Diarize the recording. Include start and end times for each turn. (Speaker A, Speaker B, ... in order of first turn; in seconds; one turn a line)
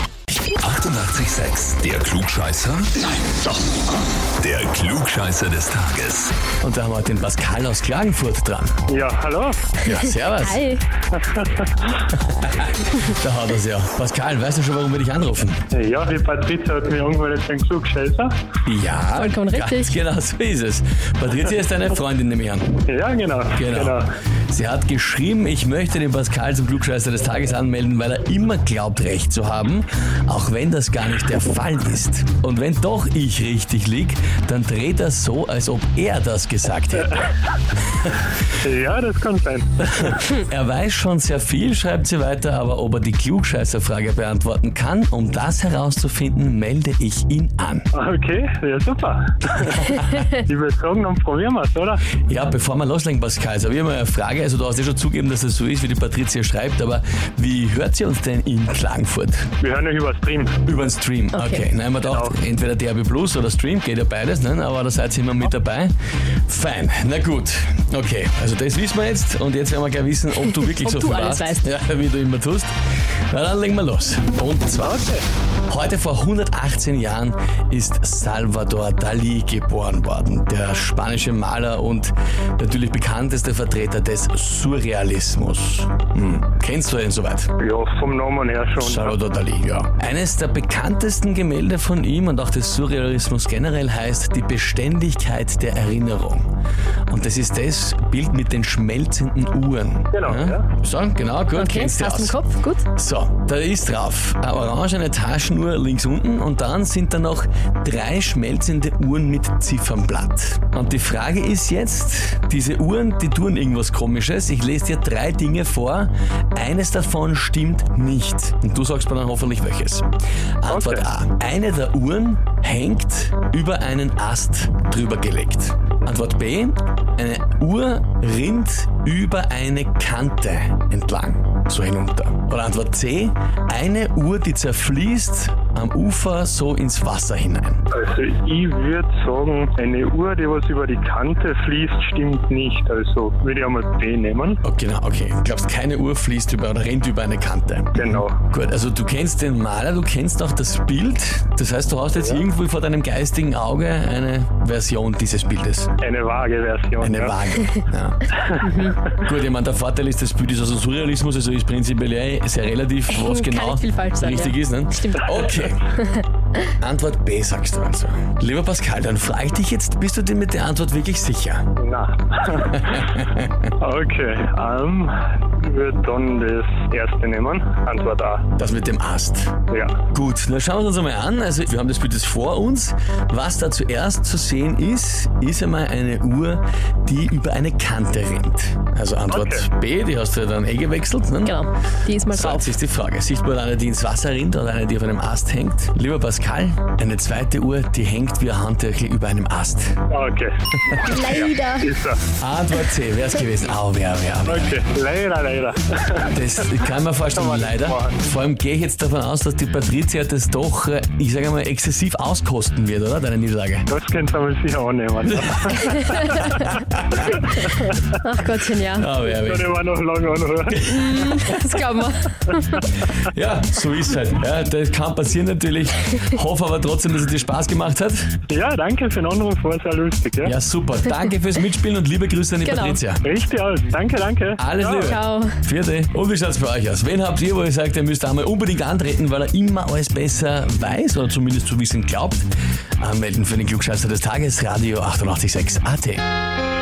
Speaker A: 0.5-3.6
Speaker A: 4.4-6.3
Speaker B: 6.6-8.8
Speaker C: 8.9-9.7
Speaker D: 9.8-10.8
Speaker B: 9.8-10.6
Speaker C: 11.1-11.9
Speaker B: 12.1-15.6
Speaker C: 15.7-18.4
Speaker B: 18.6-22.8
Speaker D: 19.1-19.9
Speaker C: 22.8-24.1
Speaker B: 23.6-37.3
Speaker B: 37.9-38.3
Speaker C: 38.6-40.2
Speaker B: 39.8-47.9
Speaker C: 47.9-52.0
Speaker B: 49.5-50.3
Speaker B: 52.2-59.5
Speaker C: 59.6-60.6
Speaker B: 60.6-65.9
Speaker D: 61.3-61.6
Speaker C: 62.0-62.4
Speaker B: 66.5-72.7
Speaker D: 70.6-71.7
Speaker B: 73.3-75.1
Speaker C: 74.8-75.2
Speaker B: 75.7-87.5
Speaker C: 87.6-89.1
Speaker B: 88.8-96.5
Speaker B: 97.1-102.3
Speaker C: 100.1-100.7
Speaker D: 101.5-102.8
Speaker B: 102.9-120.1
Speaker B: 120.6-137.8
Speaker C: 120.7-121.1
Speaker C: 137.9-144.6
Speaker B: 144.6-155.9
Speaker C: 147.9-148.4
Speaker C: 152.2-152.4
Speaker C: 156.0-157.5
Speaker B: 157.0-158.3
Speaker C: 158.3-159.2
Speaker D: 158.6-159.0
Speaker B: 159.0-165.9
Speaker D: 163.1-166.2
Speaker B: 166.6-171.7
Speaker C: 171.8-173.2
Speaker B: 172.6-173.7
Speaker C: 173.8-178.5
Speaker B: 178.6-179.5
Speaker C: 179.7-180.0
Speaker B: 180.1-191.7
Speaker C: 189.3-189.7
Speaker D: 191.4-192.7
Speaker B: 192.3-199.9
Speaker C: 200.1-200.6
Speaker B: 200.8-201.1
Speaker D: 201.0-201.9
Speaker C: 201.2-202.2
Speaker B: 202.3-204.8
Speaker C: 204.4-206.3
Speaker B: 206.3-213.9
Speaker C: 207.3-208.2
Speaker C: 213.9-216.5
Speaker B: 215.3-215.7
Speaker B: 216.2-217.4
Speaker D: 218.1-219.2
Speaker B: 218.9-219.7
Speaker C: 219.2-220.9
Speaker B: 220.7-221.6
Speaker D: 220.9-222.9
Speaker B: 223.1-228.3
Speaker C: 228.5-230.5
Speaker B: 230.4-233.2
Speaker D: 232.6-233.0
Speaker C: 233.2-235.2
Speaker B: 234.6-242.5
Speaker D: 235.0-235.5
Speaker B: 243.0-246.2